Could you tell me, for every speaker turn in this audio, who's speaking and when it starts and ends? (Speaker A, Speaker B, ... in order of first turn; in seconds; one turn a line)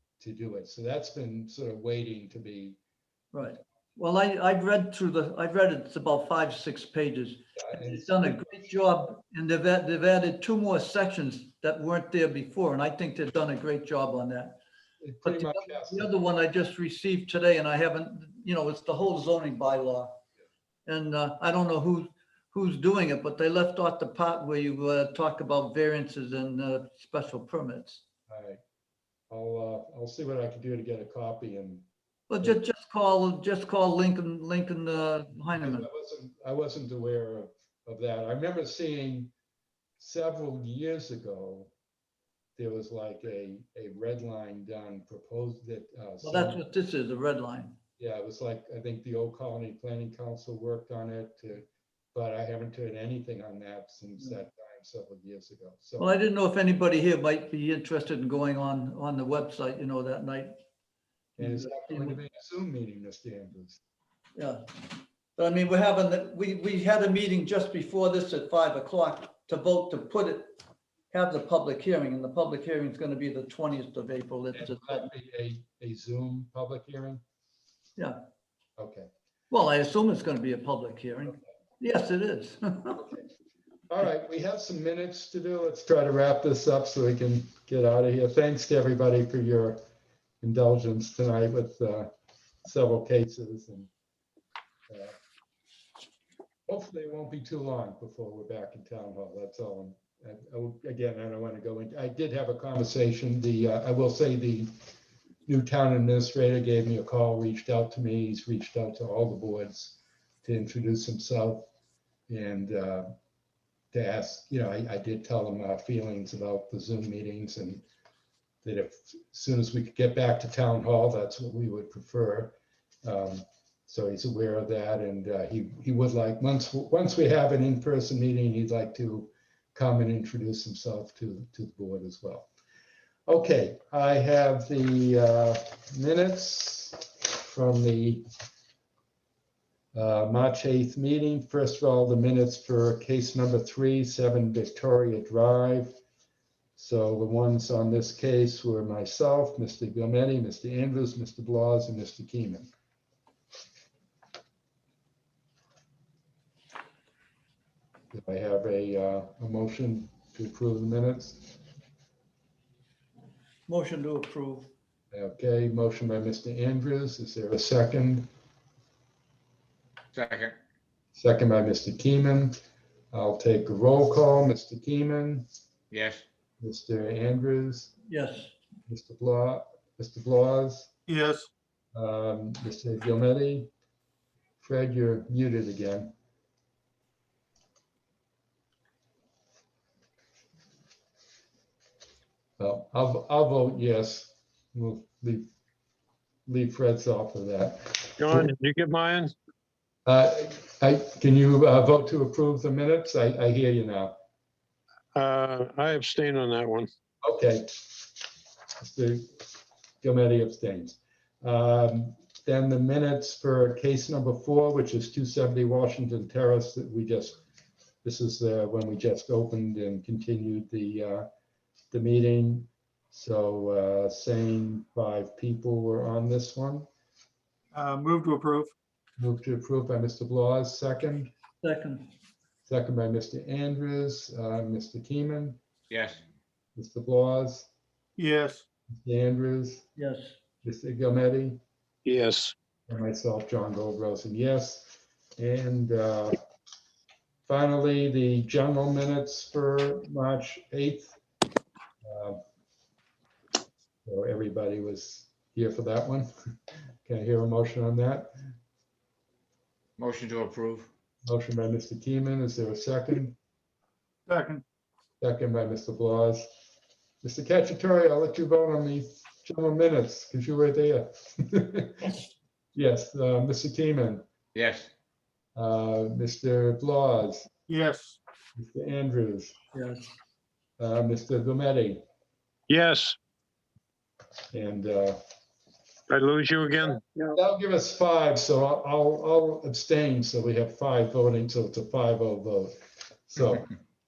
Speaker A: 0.2-2.8
Speaker B: 3.3-14.6
Speaker A: 7.6-8.3
Speaker A: 15.0-16.1
Speaker B: 15.2-20.1
Speaker B: 20.9-28.0
Speaker A: 28.3-28.6
Speaker A: 29.3-31.8
Speaker B: 32.3-35.9
Speaker A: 35.6-39.3
Speaker A: 40.0-41.7
Speaker A: 42.6-46.6
Speaker B: 46.2-47.7
Speaker A: 48.0-56.1
Speaker B: 56.0-60.6
Speaker A: 61.4-63.8
Speaker B: 61.4-62.2
Speaker B: 64.3-64.8
Speaker B: 65.4-70.5
Speaker B: 71.1-75.1
Speaker A: 74.5-77.2
Speaker A: 78.8-79.1
Speaker B: 79.5-83.0
Speaker A: 83.0-83.2
Speaker A: 83.9-89.8
Speaker A: 90.4-92.1
Speaker A: 92.6-93.9
Speaker A: 94.9-95.2
Speaker A: 96.7-104.7
Speaker A: 105.5-111.7
Speaker A: 112.3-113.1
Speaker A: 113.9-117.8
Speaker A: 118.6-132.5
Speaker A: 133.3-138.2
Speaker A: 139.9-145.9
Speaker A: 146.8-152.7
Speaker A: 158.1-161.6
Speaker B: 163.7-164.7
Speaker A: 165.1-168.3
Speaker C: 170.1-170.5
Speaker A: 171.1-175.4
Speaker C: 175.9-176.2
Speaker A: 176.6-177.9
Speaker B: 178.1-178.5
Speaker A: 178.9-180.9
Speaker D: 181.1-181.5
Speaker A: 181.9-183.7
Speaker A: 184.6-186.1
Speaker A: 192.6-195.5
Speaker A: 196.5-198.4
Speaker E: 198.2-199.3
Speaker A: 200.1-204.2
Speaker E: 205.1-206.9
Speaker A: 207.2-208.1
Speaker A: 208.8-217.4
Speaker A: 218.0-221.3
Speaker A: 221.9-226.9
Speaker D: 227.7-228.7
Speaker A: 229.2-231.3
Speaker B: 231.6-232.1
Speaker A: 232.7-235.6
Speaker C: 235.9-236.2
Speaker A: 236.8-237.7
Speaker D: 238.2-238.6
Speaker A: 238.9-239.9
Speaker B: 240.0-240.3
Speaker A: 240.6-241.6
Speaker E: 242.1-242.5
Speaker A: 242.9-246.4
Speaker A: 247.5-251.1
Speaker A: 252.0-252.4
Speaker A: 254.0-256.3
Speaker A: 257.0-258.3
Speaker C: 260.0-260.9
Speaker A: 261.2-263.4
Speaker D: 264.3-264.6
Speaker A: 265.2-266.5
Speaker A: 267.2-272.2
Speaker A: 272.7-274.2
Speaker C: 274.5-274.9
Speaker A: 275.6-277.5
Speaker D: 277.7-278.2
Speaker A: 278.6-279.6
Speaker B: 279.7-280.1
Speaker A: 280.8-282.0
Speaker E: 282.7-283.1
Speaker A: 284.5-285.2
Speaker E: 286.1-287.0
Speaker A: 287.3-293.7